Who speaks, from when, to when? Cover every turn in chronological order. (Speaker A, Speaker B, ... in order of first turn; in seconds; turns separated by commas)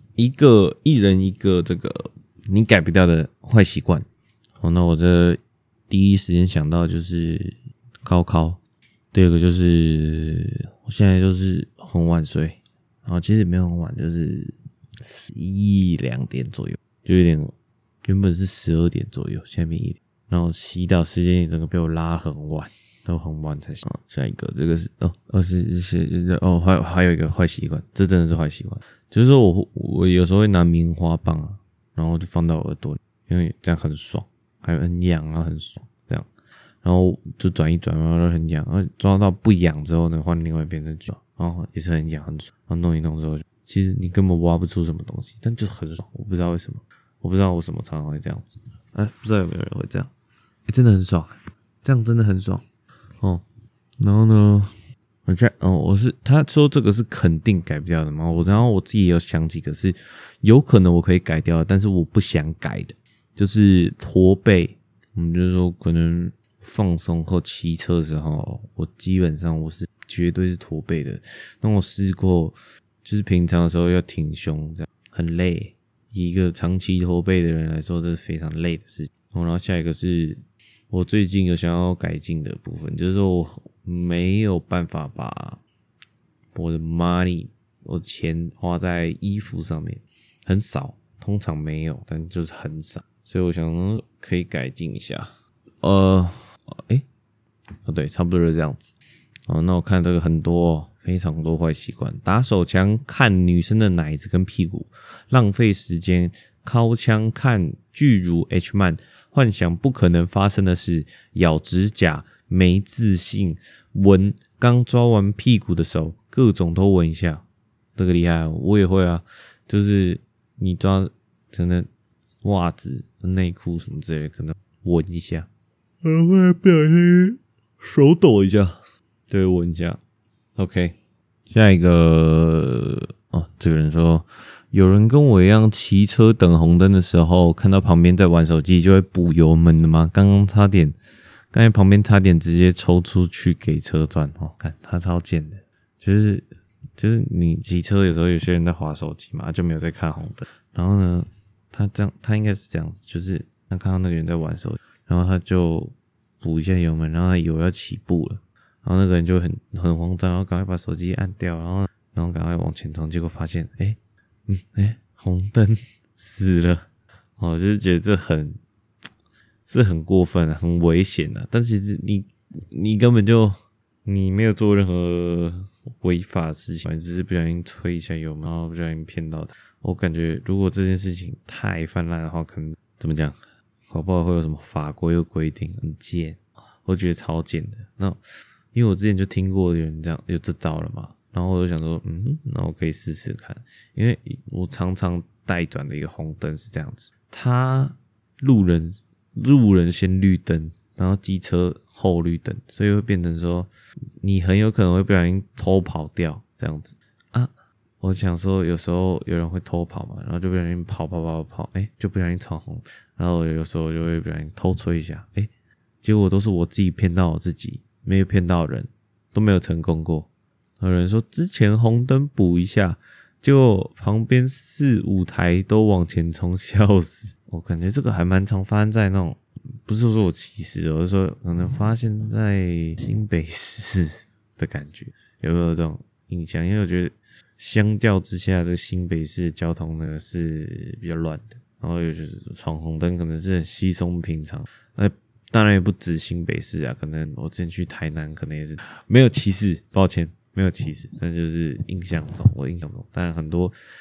Speaker A: 0.2-4.1, Speaker A: 4.6-8.6, Speaker A: 9.1-17.5, Speaker A: 18.1-36.3, Speaker A: 36.8-50.1, Speaker A: 50.7-52.6, Speaker A: 54.0-54.7, Speaker A: 55.3-85.6, Speaker A: 86.5-97.0, Speaker A: 97.8-98.9, Speaker A: 99.5-117.4, Speaker A: 118.0-121.9, Speaker A: 122.4-125.5, Speaker A: 126.0-128.8, Speaker A: 129.3-130.0, Speaker A: 130.6-131.0, Speaker A: 131.5-141.0, Speaker A: 141.5-166.8, Speaker A: 167.4-168.6, Speaker A: 169.7-183.4, Speaker A: 183.9-188.2, Speaker A: 188.7-203.7, Speaker A: 204.2-215.5, Speaker A: 216.0-220.3, Speaker A: 220.8-253.8